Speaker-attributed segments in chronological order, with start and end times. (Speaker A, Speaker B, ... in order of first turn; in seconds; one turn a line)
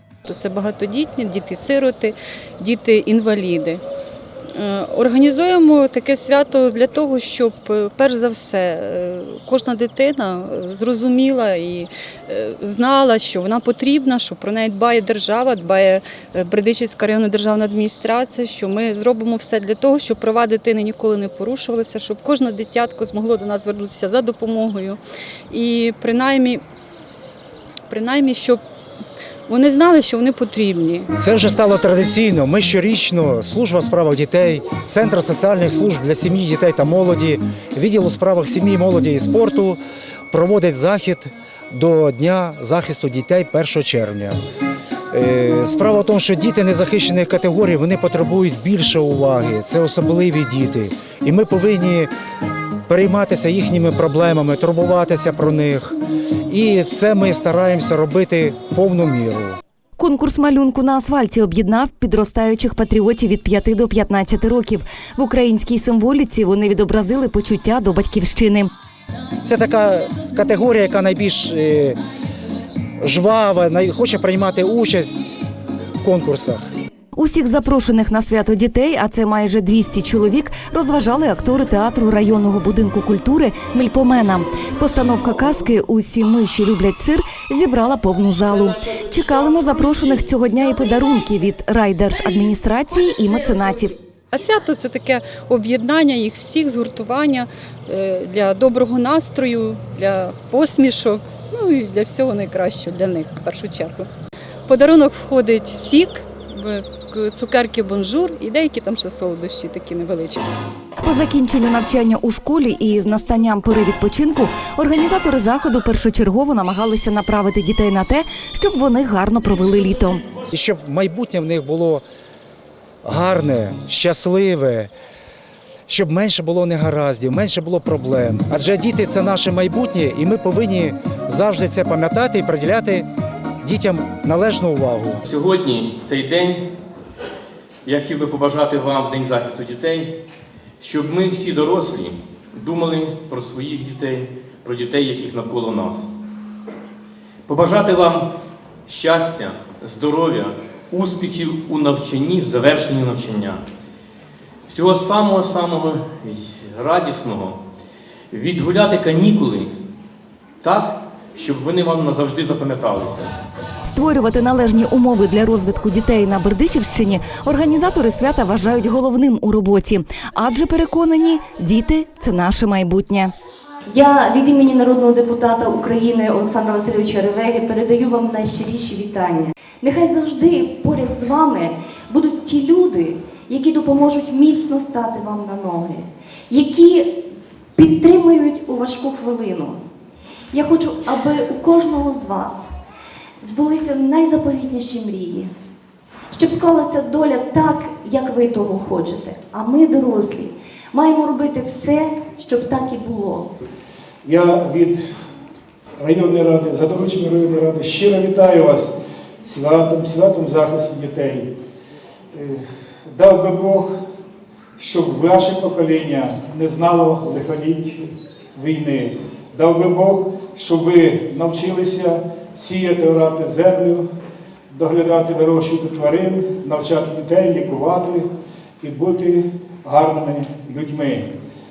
Speaker A: 0.2-3.8
Speaker A: 4.5-25.0
Speaker A: 25.5-26.6
Speaker A: 27.9-28.6
Speaker A: 29.5-31.1
Speaker B: 31.1-39.8
Speaker B: 40.3-44.4
Speaker B: 45.1-52.1
Speaker B: 52.9-56.0
Speaker B: 56.5-59.6
Speaker C: 60.0-68.7
Speaker B: 69.4-72.0
Speaker B: 73.0-75.3
Speaker B: 76.0-76.7
Speaker C: 77.2-94.0
Speaker A: 94.3-104.1
Speaker A: 104.7-110.5
Speaker C: 111.0-120.2
Speaker B: 120.5-122.0
Speaker B: 123.0-124.9
Speaker B: 125.9-133.1
Speaker B: 133.6-135.2
Speaker D: 135.3-136.7
Speaker D: 137.8-140.2
Speaker D: 140.8-146.1
Speaker D: 147.5-148.3
Speaker D: 148.9-153.7
Speaker D: 154.7-157.6
Speaker D: 158.3-159.7
Speaker D: 160.6-163.3
Speaker C: 163.9-173.3
Speaker E: 173.9-187.2
Speaker E: 187.8-189.8
Speaker E: 190.5-192.6
Speaker E: 193.4-195.5
Speaker E: 196.3-203.5
Speaker F: 204.2-205.0
Speaker F: 206.0-208.9
Speaker F: 209.4-211.5
Speaker F: 212.3-213.9
Speaker F: 214.8-218.0
Speaker F: 218.6-224.1
Speaker F: 224.7-228.3
Speaker F: 228.8-231.3